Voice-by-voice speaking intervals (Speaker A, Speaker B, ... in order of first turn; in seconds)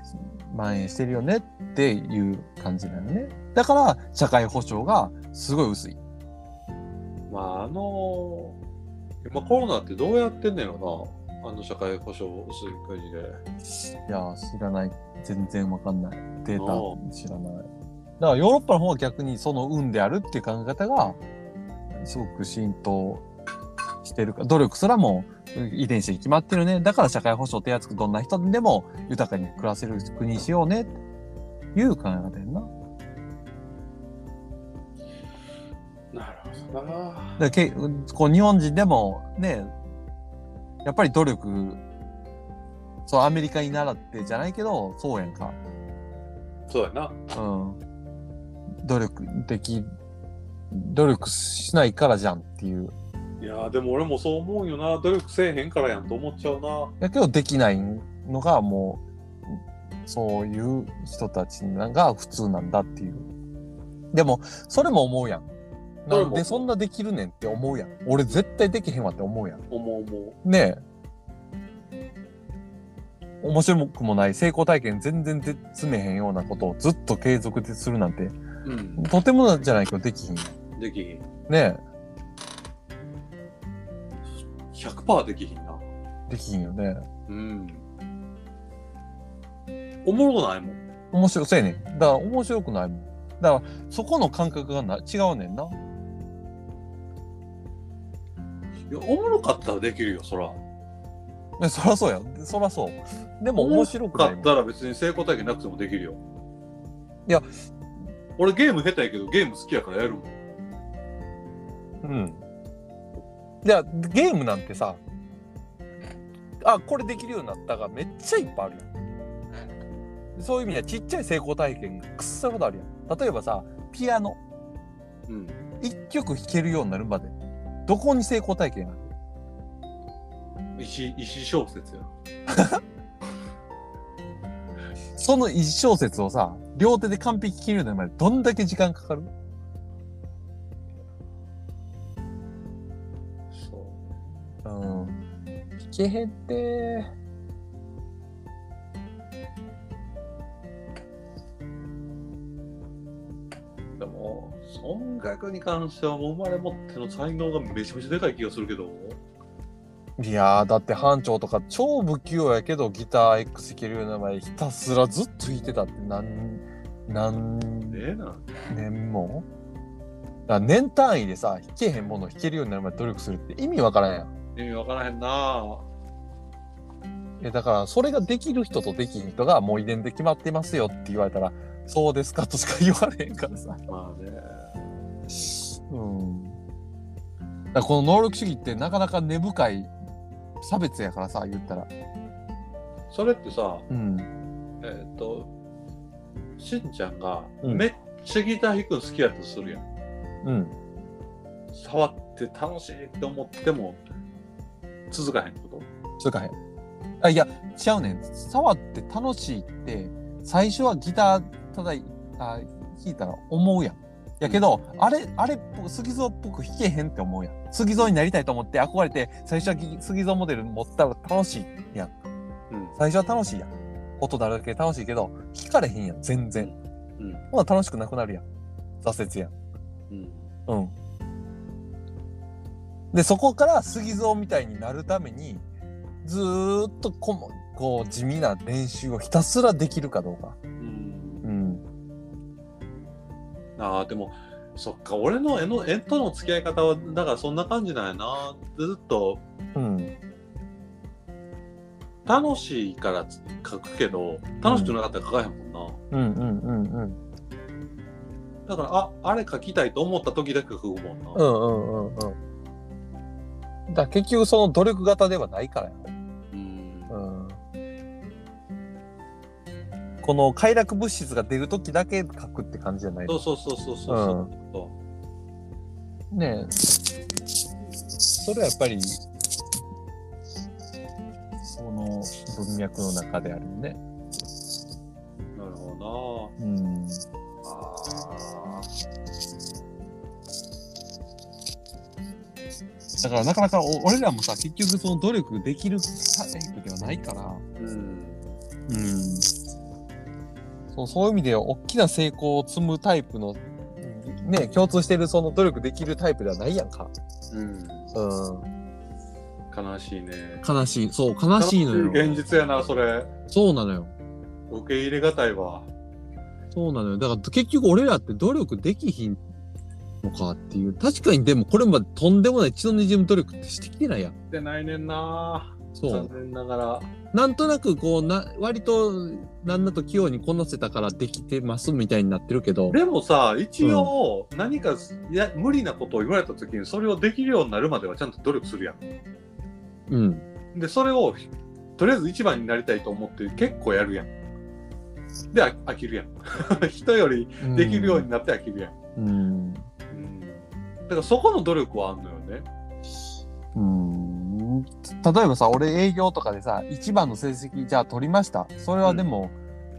Speaker A: 0.5-6.0, 14.1-17.7, 18.2-21.2, 22.0-23.3, 24.0-30.9, 31.7-32.7, 37.4-39.7, 40.9-41.8, 43.1-45.6, 47.3-47.8, 48.8-49.9, 50.7-52.9, 57.0-63.3, 64.1-65.5, 66.0-69.6, 70.4-70.8, 73.4-78.4, 79.0-80.5, 81.5-81.8, 86.3-87.0, 91.1-95.8, 101.6-104.5, 112.0-112.4, 113.6-115.0, 116.6-118.9, 120.3-124.4, 125.8-127.3, 127.9-129.1, 132.5-132.8, 135.2-139.3, 144.7-145.2, 145.9-147.1, 160.2-168.0, 168.7-169.5, 170.5-174.3, 177.4-183.8, 185.3-186.6, 187.7-189.9, 190.6-191.9, 193.9-194.3, 200.4-200.7, 206.2-206.6, 207.2-222.1, 223.0-226.7, 227.5-228.5, 229.0-229.5, 230.7-230.9, 233.1-235.7, 236.2-240.6, 241.4-241.8, 249.8-250.2, 254.6-255.0, 256.1-257.2, 261.4-262.4, 263.9-266.1, 267.1-267.6, 270.2-273.4, 274.1-274.5, 276.3-277.0, 278.3-279.2, 281.7-284.0, 286.6-287.2, 293.2-297.6, 298.9-299.5, 300.9-307.1, 308.1-308.7, 310.6-312.4, 313.5-314.1, 316.7-319.4, 320.2-324.4, 325.9-326.3, 327.3-333.0, 333.8-334.1, 340.1-340.5, 347.6-348.3, 349.2-349.9, 353.8-359.6
Speaker B: 7.3-8.6, 9.2-13.4, 16.6-17.0, 36.1-37.4, 46.7-47.2, 53.4-56.9, 66.1-66.7, 69.7-70.4, 78.6-79.1, 80.8-81.3, 84.7-85.8, 87.3-87.9, 90.0-90.8, 98.9-100.6, 103.6-106.2, 108.4-110.3, 125.3-125.6, 130.8-132.1, 143.5-144.6, 154.0-159.2, 167.9-168.6, 174.6-175.8, 183.9-184.9, 193.1-193.9, 194.8-195.5, 196.6-199.8, 201.7-204.0, 205.1-205.9, 222.7-223.0, 226.6-227.4, 230.1-230.5, 240.8-241.5, 243.8-249.4, 252.3-256.0, 258.7-261.4, 266.5-267.2, 273.3-275.0, 285.6-286.5, 287.6-288.9, 297.8-298.5, 307.5-308.1, 309.7-310.6, 311.6-313.3, 314.7-315.9, 324.5-327.1, 332.9-339.0, 340.7-344.3, 345.5-348.9, 350.1-352.7